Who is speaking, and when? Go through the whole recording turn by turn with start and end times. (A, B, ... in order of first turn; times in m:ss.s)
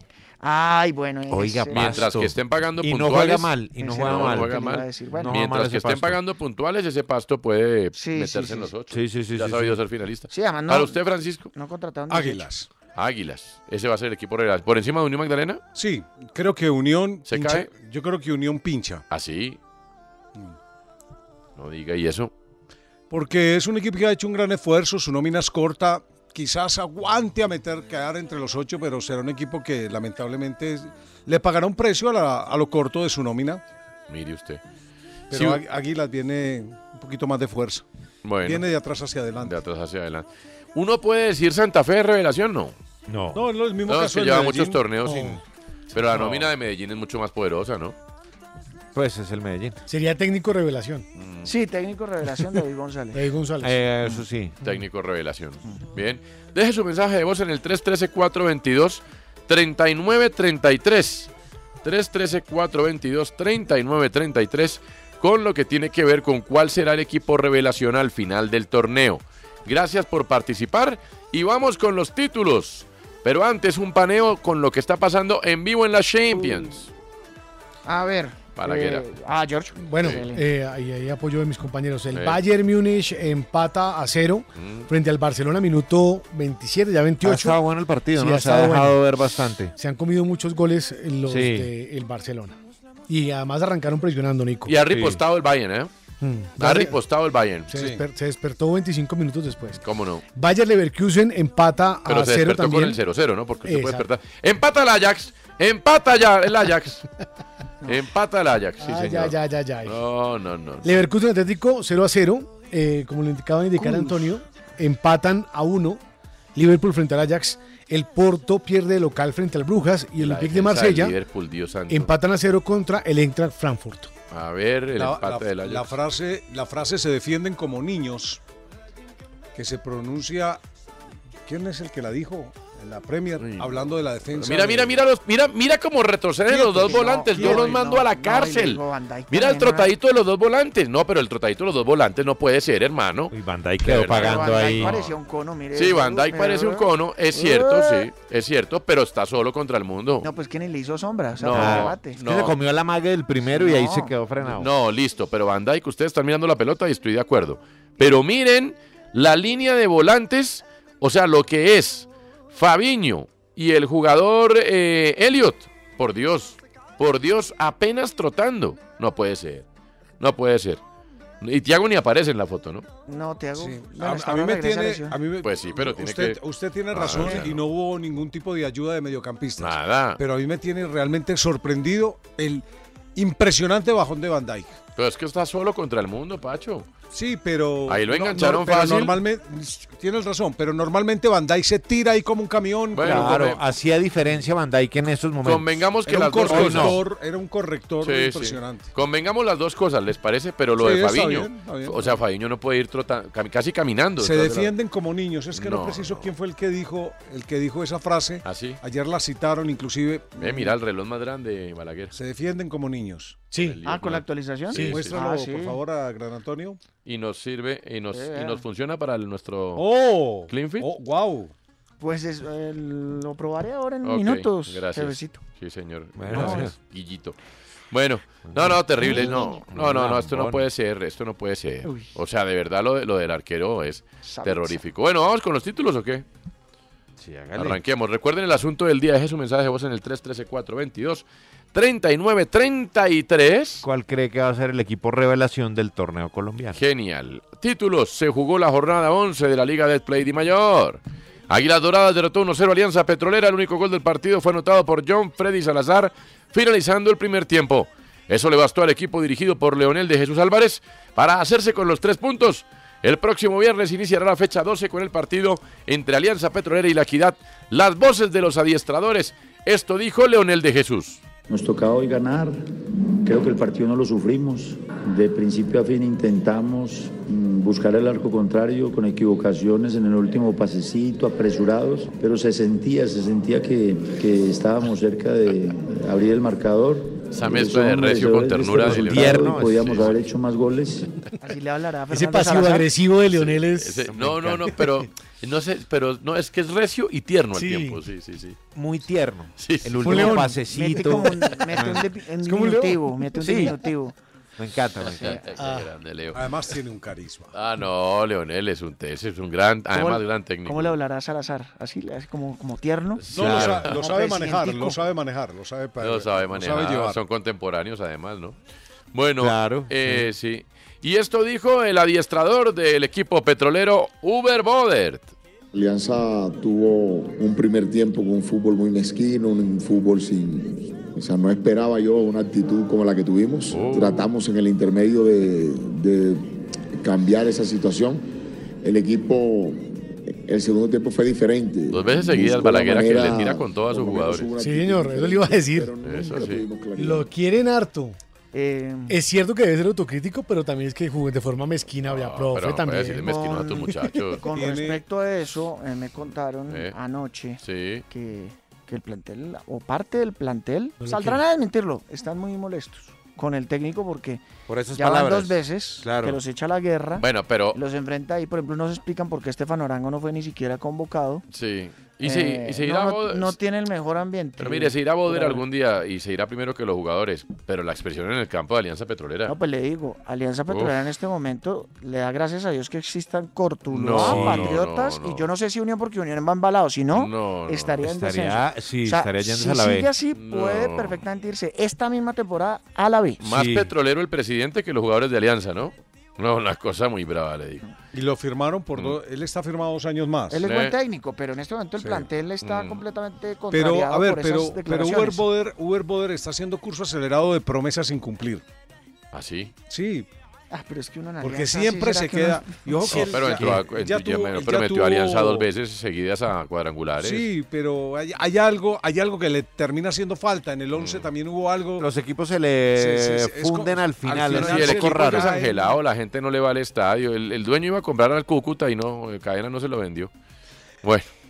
0:00.4-0:02.0 A
0:01.3-0:06.2 B
0:01.7-0:11.5 C
0:03.8-0:05.4 A
0:08.0-0:08.7 A
0:08.9-0:09.8 B
0:10.3-0:11.0 A
0:11.5-0:12.5 A
0:12.1-0:12.7 D
0:13.0-0:15.6 C
0:15.7-0:19.0 D
0:17.2-0:17.7 C
0:19.1-0:19.6 C
0:21.6-0:22.3 C
0:23.1-0:33.6 D
0:34.1-0:34.6 C
0:35.3-0:35.6 C
0:35.3-0:37.8 D
0:38.2-0:38.6 C
0:38.4-0:39.5 D
0:39.4-0:42.7 C
0:43.1-0:43.5 B
0:43.3-0:45.4 D
0:43.8-0:45.4 C
0:45.1-0:45.4 E
0:45.9-0:47.9 C
0:48.9-0:49.8 B
0:49.9-0:51.0 E
0:51.1-0:51.5 C
0:51.4-0:53.2 A
0:53.1-0:53.8 E
0:53.6-0:54.5 B
0:54.6-1:01.3 C
1:01.8-1:16.9 C
1:16.3-1:16.7 A
1:17.8-1:20.4 A
1:18.6-1:19.0 C
1:19.8-1:27.6 E
1:22.1-1:22.4 C
1:24.6-1:24.9 C
1:27.2-1:29.7 B
1:28.1-1:29.0 E
1:29.8-1:32.6 E
1:31.3-1:31.7 B
1:33.1-1:34.8 E
1:34.6-1:35.9 C
1:34.9-1:35.2 B
1:36.2-1:36.9 E
1:36.6-1:37.7 C
1:37.7-1:43.0 E
1:37.7-1:38.0 D
1:39.8-1:40.2 C
1:42.0-1:47.0 C
1:43.6-1:44.0 E
1:47.8-1:51.0 C
1:48.8-1:50.0 E
1:50.8-1:56.0 E
1:56.5-2:01.2 E
2:00.2-2:02.1 C
2:01.9-2:04.1 E
2:04.3-2:06.0 C
2:05.0-2:08.4 D
2:09.5-2:10.6 D
2:11.4-2:15.0 D
2:13.4-2:23.3 C
2:16.5-2:17.8 D
2:16.8-2:19.9 A
2:23.3-2:24.9 B
2:23.8-2:25.1 C
2:24.1-2:28.1 A
2:25.7-2:30.2 C
2:30.2-2:32.2 A
2:31.4-2:32.6 C
2:31.5-2:34.7 B
2:33.5-2:34.1 A
2:34.4-2:49.6 C
2:50.2-2:50.8 C
2:51.4-2:52.8 C
2:53.1-2:55.2 A
2:53.6-3:02.6 D
2:55.4-2:56.4 C
2:56.9-2:57.6 C
2:59.6-3:00.2 C
3:03.1-3:04.8 D
3:05.0-3:06.9 C
3:07.1-3:13.6 D
3:07.9-3:09.2 C
3:12.9-3:13.6 C
3:13.0-3:15.8 B
3:15.4-3:17.0 C
3:16.0-3:18.8 D
3:16.4-3:17.0 B
3:18.0-3:24.7 C
3:20.8-3:22.2 D
3:24.2-3:30.6 D
3:25.5-3:26.3 C
3:28.4-3:28.8 C
3:30.4-3:32.1 C
3:32.1-3:33.5 D
3:33.5-3:33.8 E
3:33.6-3:35.2 C
3:33.8-3:35.8 A
3:34.7-3:36.8 D
3:37.0-3:39.8 C
3:38.1-3:38.6 A
3:39.8-3:41.5 D
3:40.5-3:40.9 C
3:42.0-3:45.4 A
3:44.0-3:47.4 C
3:46.2-3:46.7 B
3:46.3-3:46.6 A
3:47.9-3:56.2 C
3:48.5-3:50.6 B
3:49.0-3:49.6 A
3:51.8-3:52.1 A
3:54.2-3:54.8 A
3:57.2-3:57.8 B
3:57.5-4:03.8 C
4:03.8-4:06.8 B
4:06.7-4:31.2 C
4:31.5-4:51.1 F
4:47.3-4:50.2 C
4:48.8-4:50.1 B
4:51.4-4:52.9 A
4:52.1-4:54.1 E
4:53.3-4:58.6 C
4:54.1-4:54.8 B
4:57.5-4:58.0 E
4:58.7-5:02.0 B
4:59.6-5:00.4 C
5:00.0-5:04.2 A
5:00.1-5:00.5 E
5:02.5-5:02.9 D
5:03.4-5:03.8 B
5:04.6-5:05.4 B
5:05.2-5:06.4 C
5:05.6-5:05.9 E
5:06.3-5:07.5 D
5:07.5-5:10.9 C
5:09.9-5:15.0 A
5:13.2-5:14.0 C
5:13.3-5:13.8 B
5:13.3-5:17.2 D
5:16.0-5:18.6 C
5:19.1-5:25.3 C
5:19.4-5:20.3 B
5:25.7-5:38.2 G
5:33.7-5:34.3 C
5:38.8-5:47.3 G
5:41.9-5:44.5 C
5:44.5-5:46.0 E
5:46.0-5:46.6 C
5:47.0-5:48.2 E
5:48.5-5:49.2 A
5:49.1-5:53.3 E
5:52.0-5:54.4 C
5:53.2-6:04.4 A
5:54.5-5:55.0 D
5:57.6-5:58.0 C
6:01.0-6:01.4 E
6:04.7-6:06.4 B
6:05.0-6:11.4 A
6:07.2-6:07.8 C
6:11.5-6:13.6 C
6:12.2-6:15.6 A
6:14.6-6:19.5 C
6:19.5-6:33.4 A
6:20.7-6:20.9 C
6:23.9-6:25.4 C
6:24.2-6:24.8 B
6:27.1-6:27.9 C
6:28.0-6:30.1 B
6:30.3-6:31.2 C
6:33.4-6:37.8 C
6:33.4-6:33.9 B
6:38.1-6:40.6 D
6:40.5-6:45.4 A
6:40.6-6:40.9 C
6:42.6-6:43.0 C
6:43.7-6:48.6 D
6:49.3-6:49.7 C
6:49.9-6:50.3 D
6:50.7-6:53.2 A
6:51.4-6:55.7 D
6:53.1-6:57.5 C
6:57.2-7:02.1 D
7:00.9-7:01.3 C
7:02.0-7:05.5 B
7:03.0-7:06.0 D
7:04.4-7:10.3 C
7:11.0-7:11.3 C